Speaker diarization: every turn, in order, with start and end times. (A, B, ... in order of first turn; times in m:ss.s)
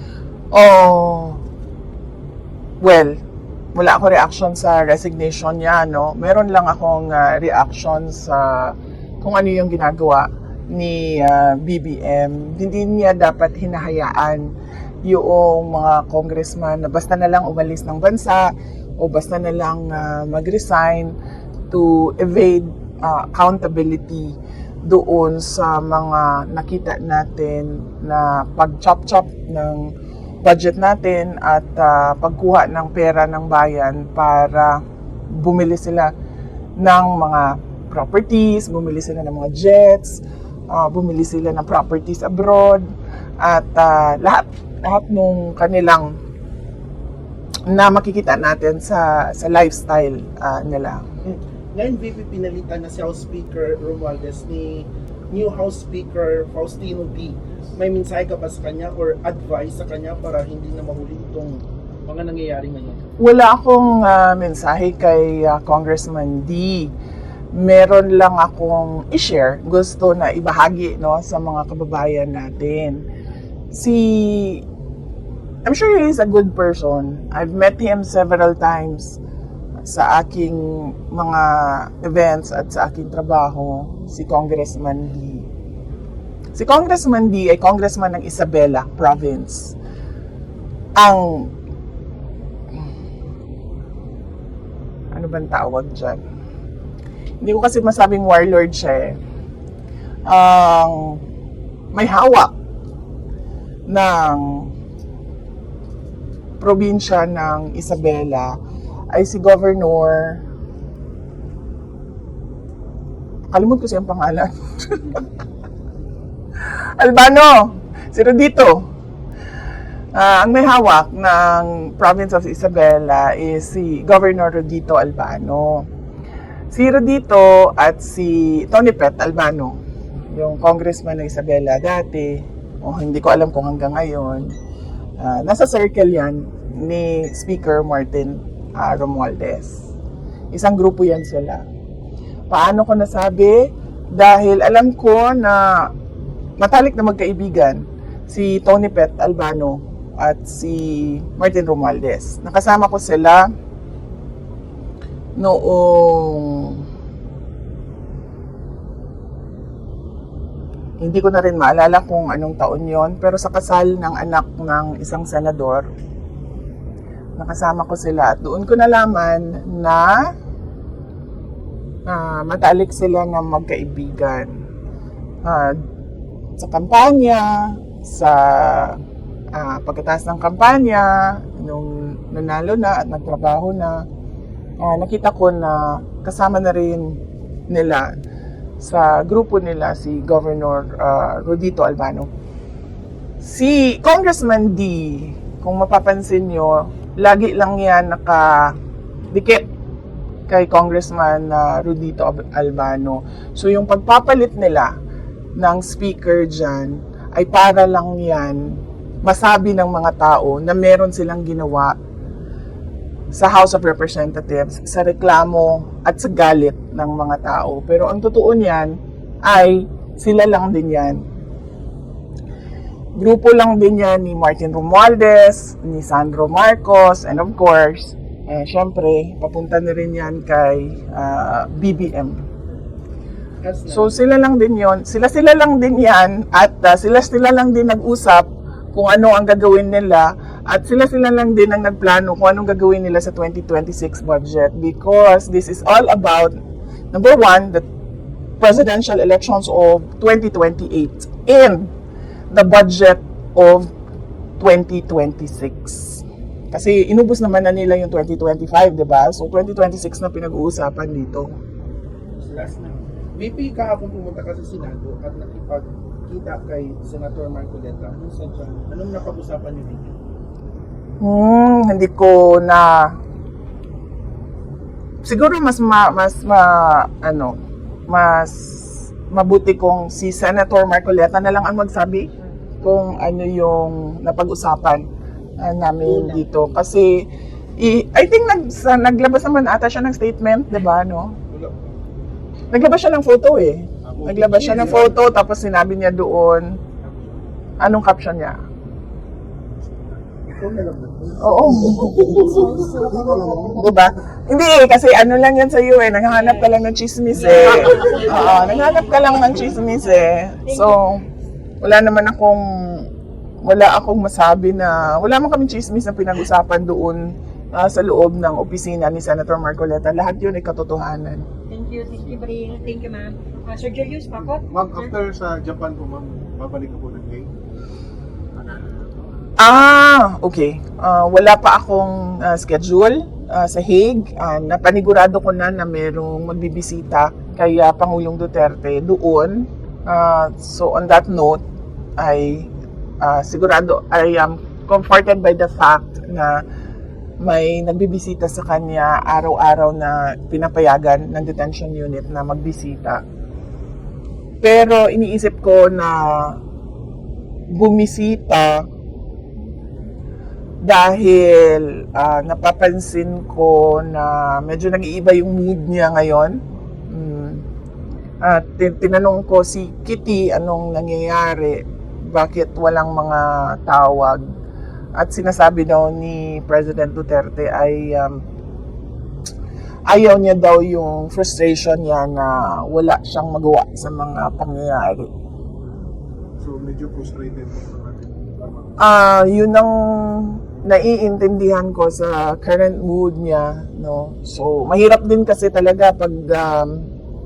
0:00.5-0:01.4 A
0:02.8-0:03.2 A
0:03.8-0:14.5 A
0:15.0-0:21.2 A
0:21.7-0:29.9 A
0:30.4-0:36.1 A
0:36.8-0:42.8 A
0:43.4-0:46.1 A
0:47.7-0:51.0 A
0:51.2-1:03.0 B
1:03.2-1:06.9 A
1:07.5-1:13.0 A
1:13.7-1:14.6 A
1:15.6-1:19.2 A
1:19.9-1:25.5 A
1:26.6-1:29.8 A
1:31.0-1:31.5 A
1:35.1-1:36.2 A
1:37.4-1:39.2 A
1:40.3-1:41.2 A
1:41.9-1:42.5 A
1:43.9-1:44.7 A
1:46.6-1:48.5 A
1:49.1-1:50.4 A
1:53.5-1:55.2 A
1:56.6-1:58.9 A
2:00.1-2:05.9 A
2:06.7-2:09.8 A
2:10.3-2:14.5 A
2:15.2-2:19.9 A
2:20.5-2:21.6 A
2:22.5-2:25.9 A
2:26.6-2:33.4 A
2:35.4-2:36.8 A
2:41.0-2:45.9 A
2:47.4-2:50.2 A
2:52.1-2:54.5 A
2:55.4-2:55.8 A
2:56.6-2:59.0 A
2:59.5-3:04.0 A
3:04.8-3:07.2 A
3:07.7-3:08.1 A
3:08.8-3:12.3 A
3:13.4-3:18.8 A
3:19.3-3:19.7 A
3:20.5-3:24.9 A
3:25.6-3:31.9 A
3:33.3-3:41.2 A
3:43.2-3:52.4 A
3:53.6-3:54.2 B
3:53.9-4:06.6 A
4:07.1-4:07.8 A
4:08.6-4:11.9 A
4:12.5-4:13.9 A
4:14.6-4:21.5 A
4:22.4-4:30.1 B
4:31.2-4:33.2 A
4:35.2-4:37.6 A
4:38.1-4:42.3 A
4:42.8-4:45.1 A
4:45.6-4:51.4 A
4:46.0-4:46.8 B
4:51.5-4:52.0 B
4:52.7-4:56.7 A
4:54.2-4:55.1 B
4:57.8-4:58.6 A
5:00.5-5:03.8 B
5:01.4-5:02.6 A
5:02.6-5:03.2 C
5:03.4-5:11.3 A
5:06.3-5:06.8 C
5:07.3-5:09.9 C
5:07.7-5:08.5 B
5:10.7-5:11.0 C
5:11.8-5:13.1 A
5:13.6-5:21.5 A
5:21.7-5:25.2 C
5:24.7-5:27.5 D
5:28.6-5:29.1 D
5:29.6-5:41.6 A
5:42.2-5:46.6 A
5:47.4-5:53.2 A
5:54.6-5:56.6 A
5:57.7-5:58.9 A
6:00.8-6:07.6 A
6:08.4-6:14.4 A
6:15.2-6:18.4 A
6:20.1-6:25.3 A
6:26.6-6:29.0 D
6:29.0-6:37.1 A